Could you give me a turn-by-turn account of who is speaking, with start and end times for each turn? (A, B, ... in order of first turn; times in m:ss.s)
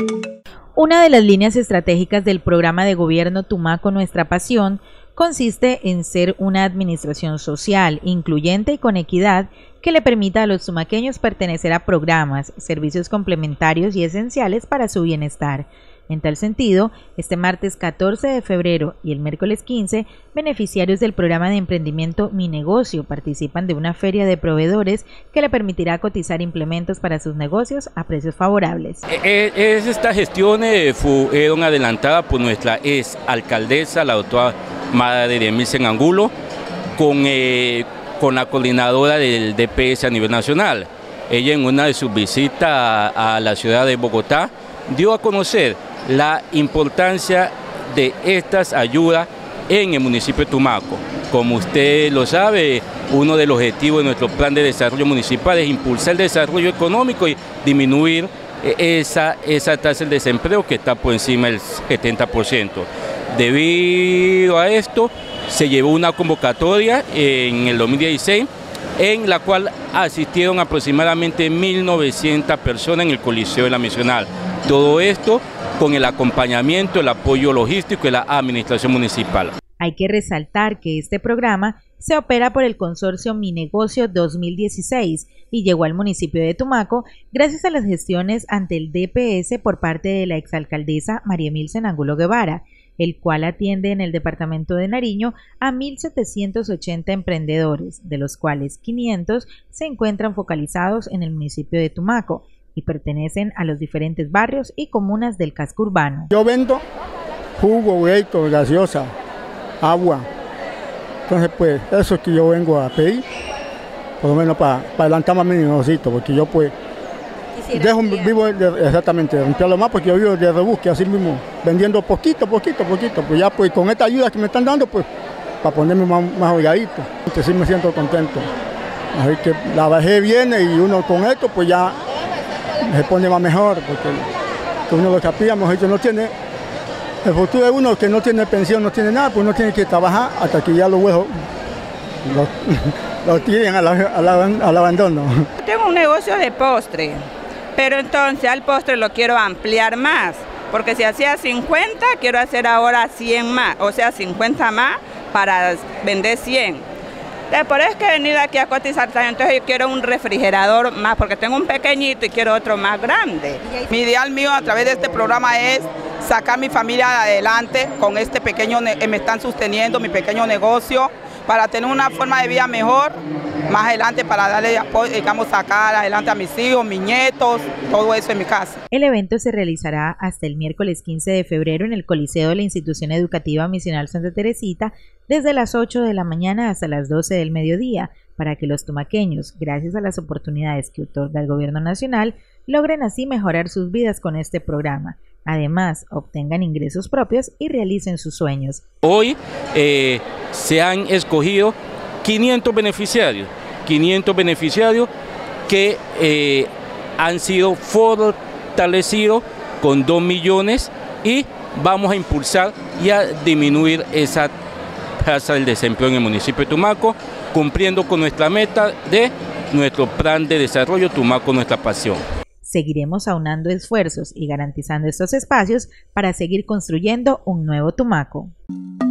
0:00.8-0:29.0 A
0:29.1-0:36.3 B
0:37.0-1:19.5 B
1:19.8-1:46.3 A
1:46.3-1:46.8 C
1:47.6-1:49.1 C
1:49.8-1:50.3 C
1:51.3-1:53.2 C
1:54.2-1:56.7 C
1:57.6-2:05.1 C
2:05.6-2:08.5 C
2:09.1-2:12.0 C
2:12.8-2:14.3 C
2:14.9-2:16.3 C
2:17.2-2:21.3 C
2:22.2-2:25.5 C
2:25.6-2:27.2 D
2:27.8-2:36.8 D
2:37.5-2:43.9 D
2:43.9-2:53.2 E
2:53.7-2:58.8 E
2:58.9-3:18.8 A
3:19.0-3:25.1 B
3:25.7-3:34.5 B
3:35.2-3:42.2 B
3:42.6-3:48.5 A